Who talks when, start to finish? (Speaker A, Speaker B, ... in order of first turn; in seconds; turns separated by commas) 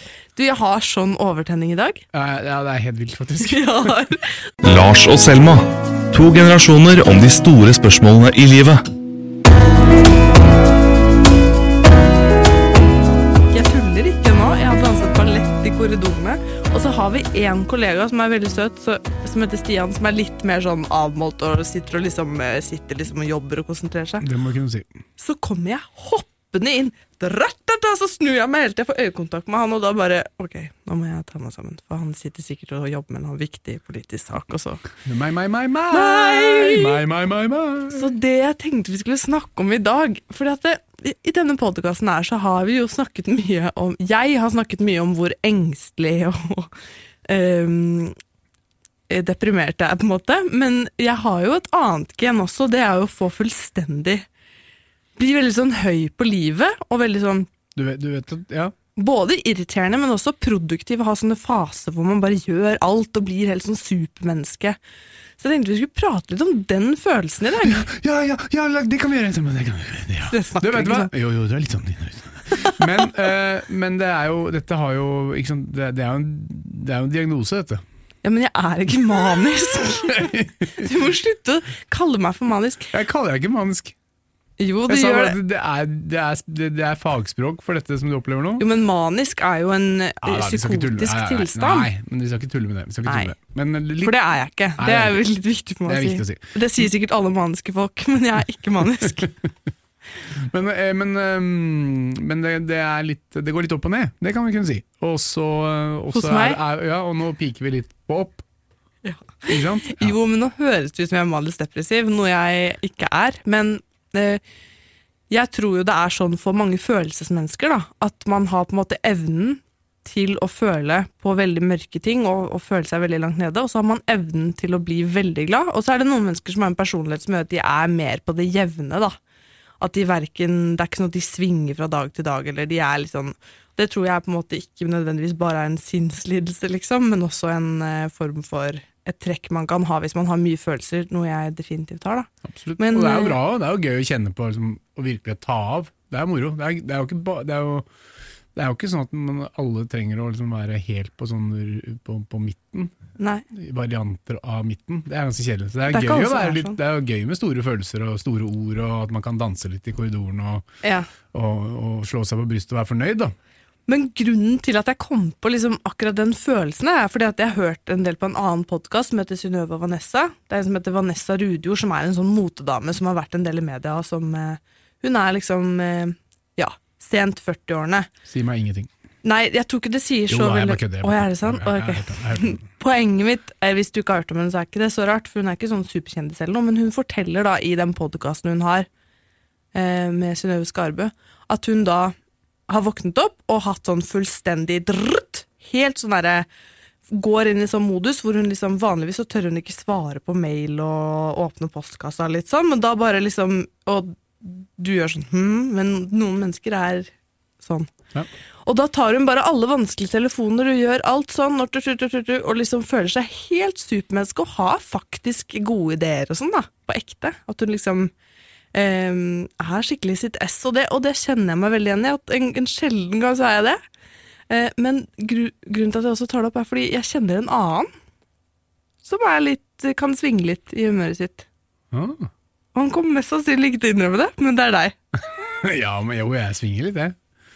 Speaker A: 0.3-2.0, Speaker B: 2.1-3.9, Speaker A: 3.4-4.5, Speaker C: 4.6-8.8, Speaker A: 13.5-24.2, Speaker B: 24.2-24.9, Speaker A: 25.2-34.9, Speaker B: 35.0-38.1, Speaker A: 35.9-37.0, Speaker A: 37.9-46.7, Speaker A: 47.2-48.1, Speaker A: 49.1-54.2, Speaker A: 55.1-57.5, Speaker B: 57.7-58.7, Speaker A: 59.0-64.8, Speaker A: 65.4-67.9, Speaker B: 67.6-77.8, Speaker A: 70.3-71.1, Speaker A: 72.5-72.8, Speaker A: 78.2-82.9, Speaker B: 80.1-80.8, Speaker B: 82.9-83.9, Speaker A: 84.6-85.4, Speaker B: 84.9-88.6, Speaker A: 88.6-91.9, Speaker B: 90.2-94.2, Speaker A: 93.0-93.3, Speaker A: 94.0-99.3, Speaker B: 94.7-95.2, Speaker B: 95.8-96.6, Speaker B: 100.3-108.4, Speaker A: 106.1-106.6, Speaker A: 109.0-114.4, Speaker B: 109.5-110.2, Speaker A: 115.3-129.2, Speaker A: 129.8-143.4, Speaker B: 142.5-147.9, Speaker B: 148.5-152.9, Speaker A: 153.2-153.4, Speaker B: 153.5-160.6, Speaker A: 155.9-156.8, Speaker A: 160.8-161.1, Speaker B: 161.3-163.3, Speaker A: 163.9-178.1, Speaker B: 178.2-178.9, Speaker A: 179.2-188.9, Speaker B: 180.3-182.7, Speaker A: 189.7-192.2, Speaker A: 192.7-196.5, Speaker A: 197.1-207.9, Speaker A: 208.6-218.1, Speaker A: 218.7-223.8, Speaker A: 224.5-227.9, Speaker A: 229.0-231.4, Speaker B: 231.9-232.3, Speaker A: 232.7-234.9, Speaker B: 235.3-237.1